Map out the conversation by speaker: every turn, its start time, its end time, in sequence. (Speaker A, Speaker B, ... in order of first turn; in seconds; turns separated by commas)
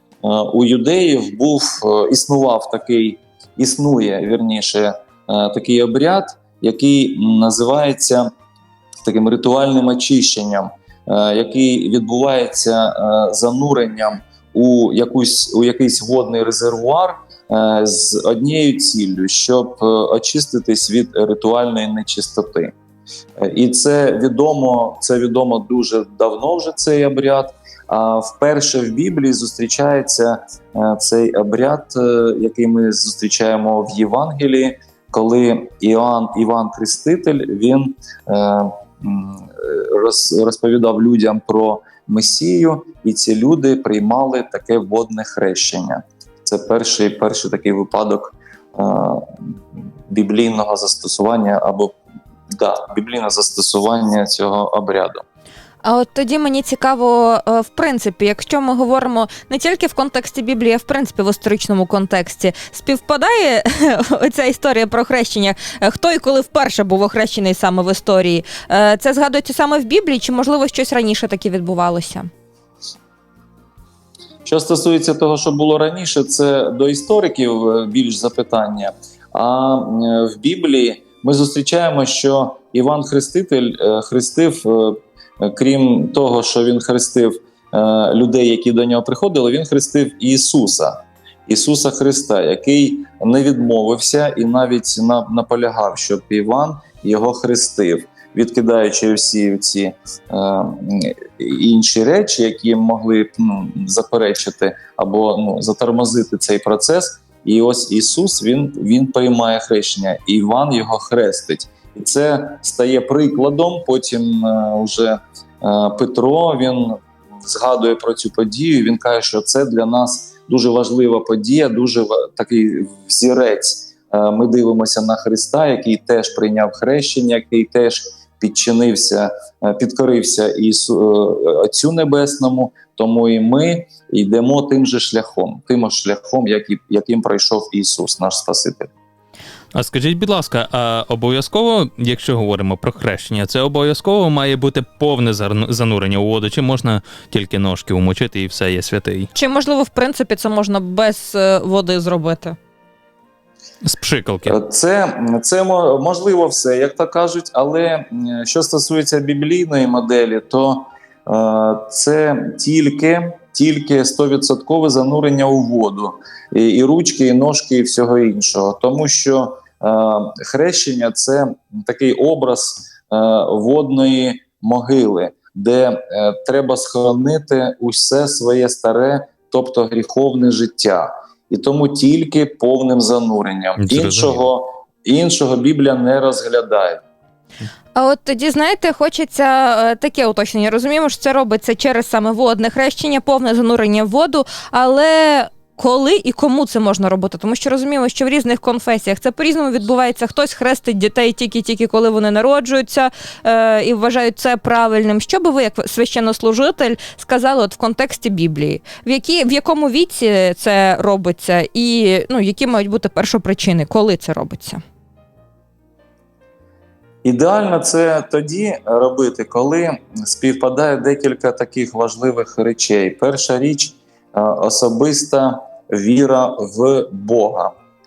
Speaker A: 0.2-8.3, Speaker A: 9.0-22.7, Speaker A: 23.4-52.0, Speaker A: 52.5-55.2, Speaker B: 55.8-72.3, Speaker A: 74.4-138.9, Speaker C: 139.7-149.3, Speaker B: 149.3-152.6, Speaker C: 153.8-154.6, Speaker A: 154.5-187.0, Speaker C: 183.8-184.4, Speaker B: 187.9-214.8, Speaker A: 217.2-227.7